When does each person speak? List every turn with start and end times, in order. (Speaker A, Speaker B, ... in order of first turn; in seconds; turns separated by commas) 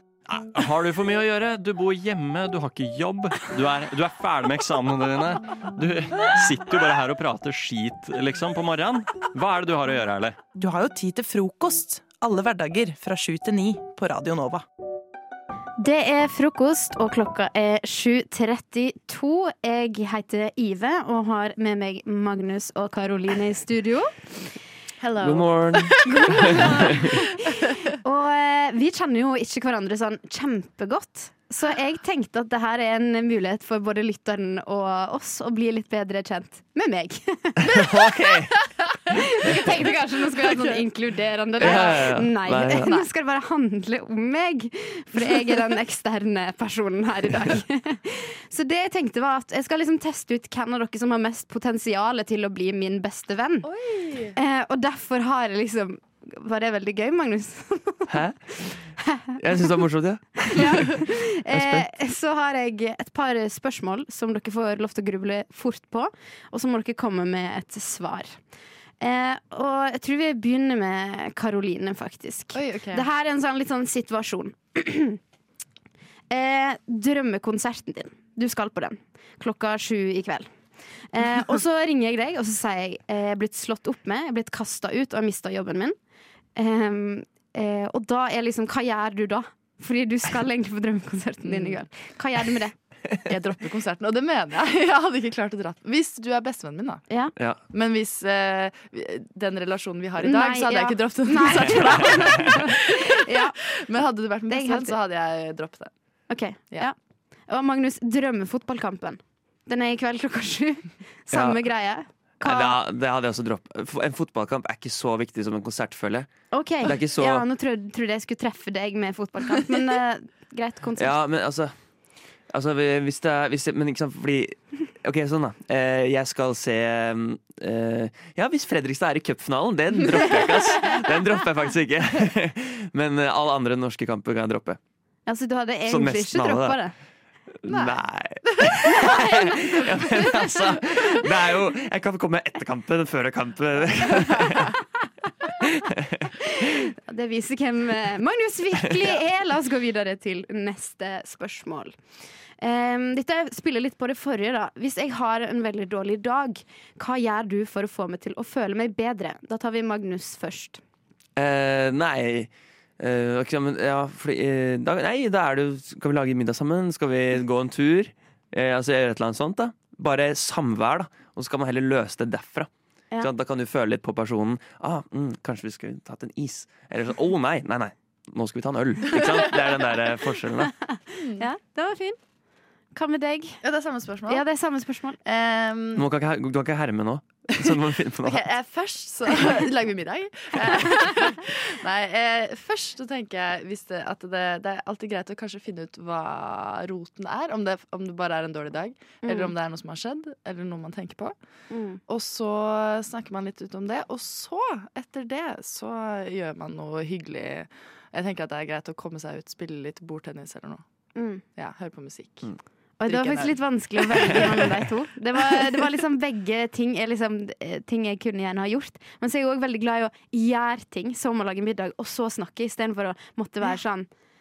Speaker A: 0.3-10.4, Speaker B: 10.6-14.6, Speaker C: 15.8-24.1, Speaker D: 25.2-27.1, Speaker C: 26.0-37.8, Speaker D: 37.6-38.5, Speaker C: 39.1-53.7, Speaker D: 39.5-39.8, Speaker D: 41.6-43.1, Speaker E: 53.6-54.4, Speaker C: 54.4-58.1, Speaker D: 58.1-58.4, Speaker C: 59.0-59.4, Speaker D: 59.4-60.9, Speaker C: 60.4-68.4, Speaker D: 61.5-61.9, Speaker C: 69.0-75.2, Speaker E: 72.5-73.1, Speaker C: 76.3-80.5, Speaker C: 81.1-86.0, Speaker C: 86.6-92.8, Speaker E: 91.5-91.8, Speaker E: 93.3-97.0, Speaker C: 97.1-97.3, Speaker E: 97.7-105.9, Speaker C: 100.2-103.5, Speaker D: 101.9-102.4, Speaker C: 104.5-105.0, Speaker C: 106.3-107.0, Speaker C: 107.5-112.8, Speaker D: 111.3-111.6, Speaker D: 112.4-116.3, Speaker C: 116.5-121.2, Speaker D: 116.8-117.5, Speaker D: 121.0-121.7, Speaker D: 122.5-134.8, Speaker C: 135.3-136.9, Speaker D: 135.9-136.8, Speaker D: 137.6-144.8, Speaker E: 137.7-138.0, Speaker C: 138.9-139.6, Speaker C: 140.1-140.4, Speaker C: 146.4-152.0, Speaker C: 152.6-160.8, Speaker D: 161.4-172.7, Speaker D: 173.2-180.7, Speaker C: 180.8-182.2, Speaker E: 181.2-181.5, Speaker C: 182.9-183.6, Speaker E: 183.6-184.5, Speaker C: 184.3-185.2, Speaker E: 185.2-186.1, Speaker D: 186.0-188.4, Speaker E: 187.6-201.4, Speaker C: 199.2-199.5, Speaker C: 201.7-202.0, Speaker E: 202.1-210.8, Speaker C: 211.2-211.4, Speaker E: 211.5-212.5, Speaker C: 213.0-224.1, Speaker E: 213.0-214.8